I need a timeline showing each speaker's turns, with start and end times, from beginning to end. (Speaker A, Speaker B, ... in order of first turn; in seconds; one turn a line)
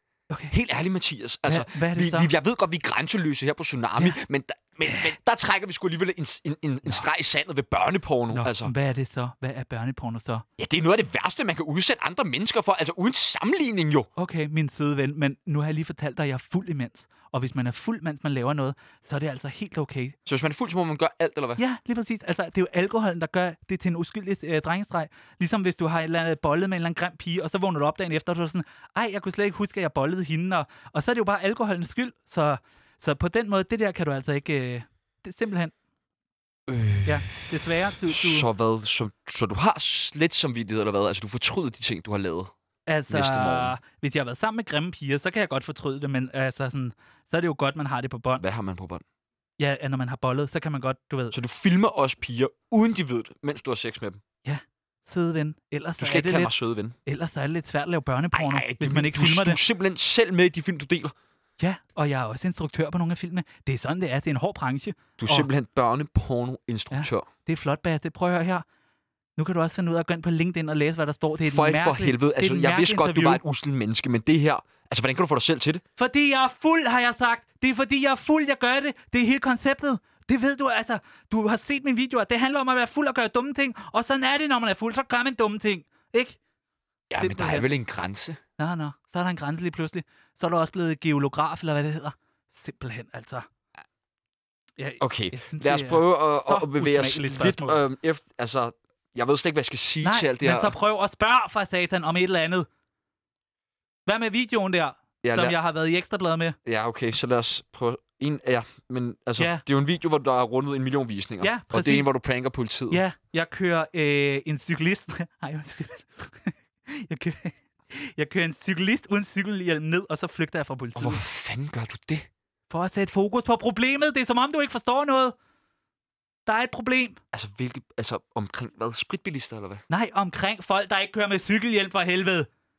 Speaker A: 0.5-8.7
Speaker B: 1.4-2.3
Speaker B: 4.8-5.1
Speaker B: 8.3-10.4
Speaker A: 10.6-14.1
Speaker B: 14.2-20.1
Speaker A: 20.2-21.6
Speaker B: 21.6-35.7
Speaker A: 36.7-42.5
Speaker B: 37.0-38.5
Speaker B: 42.9-48.4
Speaker A: 43.1-43.8
Speaker A: 48.4-49.0
Speaker B: 49.6-51.4
Speaker A: 51.3-54.2
Speaker B: 54.4-56.5
Speaker A: 56.0-57.0
Speaker B: 57.0-59.6
Speaker A: 58.3-61.1
Speaker B: 61.6-65.5
Speaker A: 65.2-67.3
Speaker B: 66.9-68.6
Speaker B: 69.4-73.4
Speaker A: 71.4-75.8
Speaker B: 76.0-86.4
Speaker A: 87.1-88.4
Speaker B: 87.2-87.7
Speaker B: 88.6-93.5
Speaker B: 94.8-97.8
Speaker A: 95.0-100.7
Speaker B: 100.0-102.7
Speaker B: 104.0-106.5
Speaker A: 105.2-105.6
Speaker A: 106.7-113.0
Speaker B: 109.4-109.6
Speaker B: 111.4-112.1
Speaker B: 112.9-121.2
Speaker A: 120.9-122.3
Speaker B: 122.7-125.3
Speaker B: 126.5-127.2
Speaker A: 127.3-129.8
Speaker B: 129.9-132.5